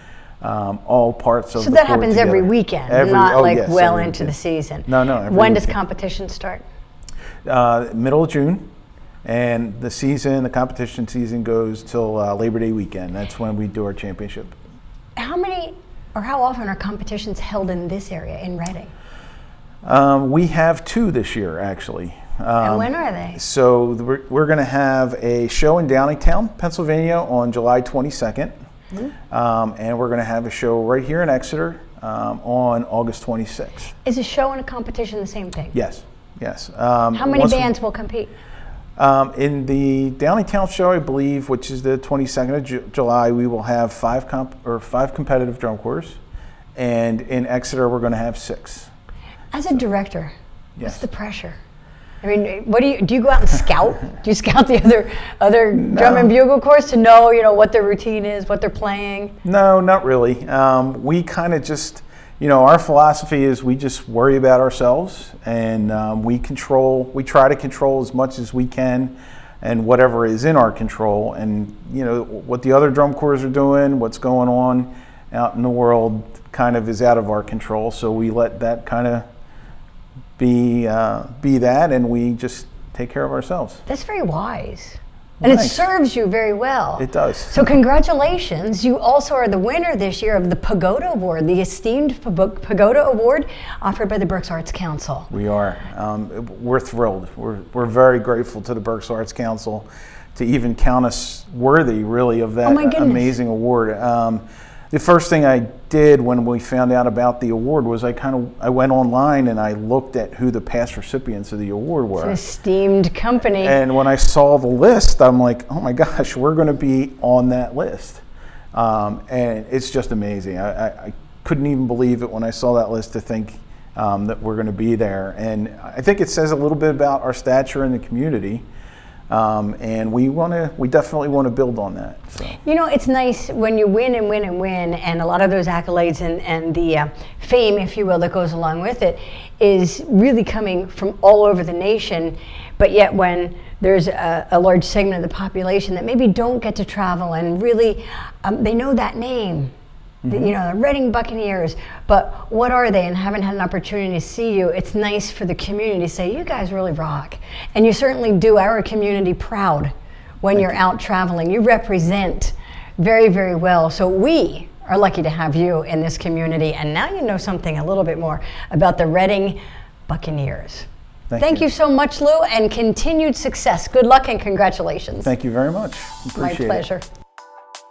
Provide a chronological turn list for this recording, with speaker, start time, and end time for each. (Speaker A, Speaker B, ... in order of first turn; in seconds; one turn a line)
Speaker A: 0.4-4.3
Speaker B: 1.6-6.6
Speaker A: 4.9-5.7
Speaker A: 7.4-8.7
Speaker A: 9.2-14.6
Speaker B: 15.2-18.9
Speaker A: 19.8-28.5
Speaker B: 22.6-23.4
Speaker A: 29.3-33.9
Speaker B: 34.0-35.7
Speaker A: 35.7-37.7
Speaker B: 37.1-38.3
Speaker A: 39.0-46.2
Speaker A: 46.7-48.9
Speaker B: 49.5-51.6
Speaker A: 50.8-51.0
Speaker B: 52.2-59.4
Speaker A: 55.8-56.3
Speaker A: 59.4-79.2
Speaker A: 80.4-83.8
Speaker B: 83.8-95.3
Speaker A: 85.4-85.9
Speaker A: 87.0-87.8
Speaker A: 95.3-112.4
Speaker B: 102.6-103.3
Speaker B: 112.2-113.8
Speaker A: 113.6-118.2
Speaker A: 118.7-128.6
Speaker A: 129.3-132.6
Speaker B: 132.6-149.7
Speaker A: 150.2-150.5
Speaker B: 150.3-175.3
Speaker A: 160.5-160.8
Speaker A: 171.3-171.7
Speaker A: 175.2-176.8
Speaker B: 176.3-177.0